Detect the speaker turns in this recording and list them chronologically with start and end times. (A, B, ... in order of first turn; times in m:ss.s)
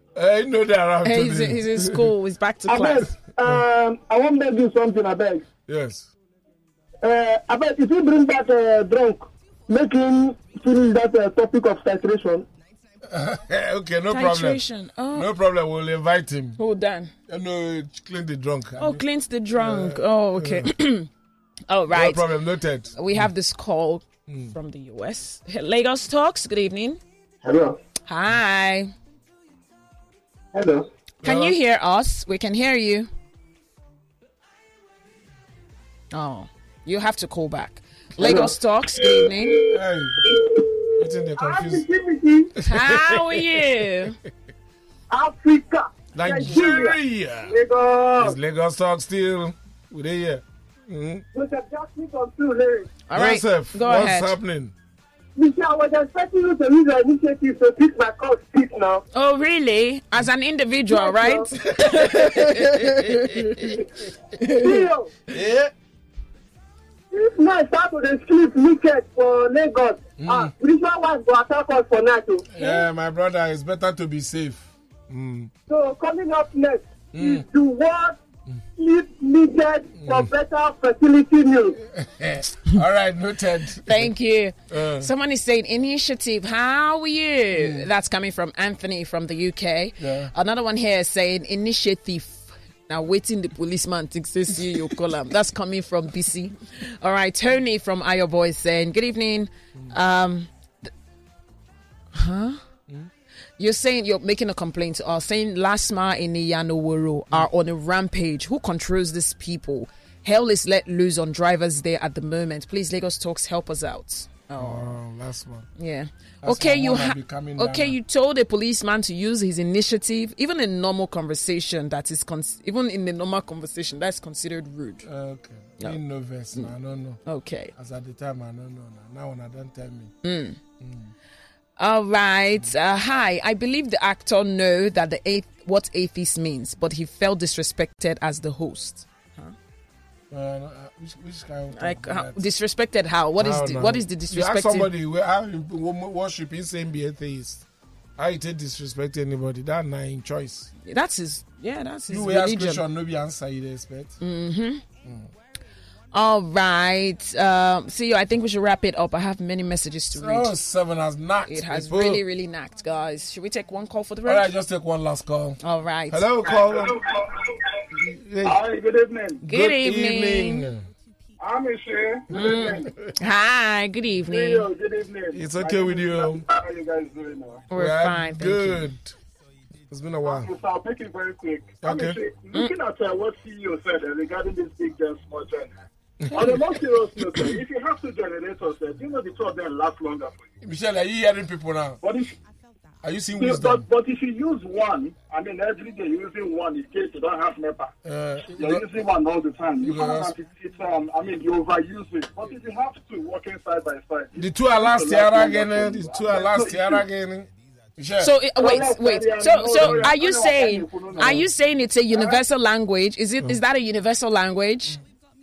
0:00.1-0:02.1 A
0:01.0-0:03.1 B
0:02.7-0:05.4 C
0:05.7-0:06.1 A
0:07.0-0:12.5 C
0:13.0-0:16.6 A
0:14.1-0:15.3 B
0:16.6-0:17.1 B
0:17.3-0:19.0 A
0:18.8-0:21.1 B
0:19.5-0:20.7 A
0:21.7-0:22.2 B
0:21.9-0:23.3 A
0:23.0-0:27.0 B
0:24.3-0:24.5 A
0:27.4-0:27.8 C
0:28.0-0:28.9 B
0:30.5-0:30.9 C
0:31.2-0:33.1 B
0:31.2-0:31.6 A
0:36.1-0:39.7 B
0:38.2-0:38.5 C
0:39.6-0:40.3 A
0:40.2-0:42.5 C
0:40.9-0:41.8 A
0:42.6-0:43.6 A
0:42.6-0:44.2 B
0:45.1-0:48.4 C
0:46.1-0:47.6 A
0:48.2-0:51.2 A
0:51.3-0:53.0 C
0:53.1-0:54.4 B
0:53.1-0:54.7 A
0:55.4-0:59.0 C
0:59.1-1:03.8 B
1:00.9-1:01.5 C
1:01.8-1:03.8 A
1:04.4-1:04.8 B
1:04.4-1:05.1 C
1:05.3-1:05.7 A
1:07.1-1:12.8 C
1:10.2-1:10.5 A
1:12.5-1:15.5 A
1:15.7-1:18.2 C
1:17.1-1:17.4 A
1:18.8-1:21.8 C
1:20.0-1:20.3 A
1:21.9-1:24.1 A
1:23.9-1:40.9 B
1:24.7-1:25.1 A
1:27.5-1:27.9 A
1:30.0-1:30.3 A
1:42.1-1:42.6 B
1:43.6-1:55.0 B
1:54.6-1:55.7 A
1:55.8-2:05.0 B
1:56.4-1:58.0 A
2:05.0-2:07.2 A
2:07.2-2:07.7 B
2:07.7-2:10.1 A
2:10.2-2:10.6 B
2:10.8-2:11.1 A
2:11.8-2:19.5 B
2:20.3-2:22.5 A
2:21.7-2:24.9 B
2:23.4-2:27.6 A
2:28.2-2:30.7 A
2:30.8-2:32.8 B
2:32.1-2:34.2 A
2:34.2-2:34.8 B
2:36.1-2:40.5 B
2:40.1-2:42.2 A
2:41.5-2:44.5 B
2:44.2-2:47.0 A
2:45.6-2:46.3 B
2:46.5-2:47.5 C
2:47.9-2:48.6 A
2:48.4-2:49.4 C
2:49.4-2:50.9 A
2:49.4-2:50.7 B
2:51.4-2:52.9 C
2:52.3-2:54.7 B
2:52.3-2:53.1 A
2:54.3-2:57.6 C
2:55.3-2:56.4 A
2:57.7-2:58.9 B
2:57.7-2:59.1 A
2:59.9-3:00.5 A
3:00.2-3:05.7 C
3:01.8-3:02.2 A
3:06.2-3:06.8 A
3:06.3-3:10.4 C
3:10.6-3:12.0 A
3:12.0-3:12.3 C
3:13.0-3:13.8 A
3:13.4-3:17.9 C
3:18.0-3:18.8 A
3:18.5-3:27.0 C
3:19.8-3:20.3 A
3:24.4-3:28.3 A
3:28.2-3:35.0 B
3:28.6-3:31.5 C
3:29.8-3:30.1 A
3:31.2-3:31.4 A
3:32.1-3:32.4 C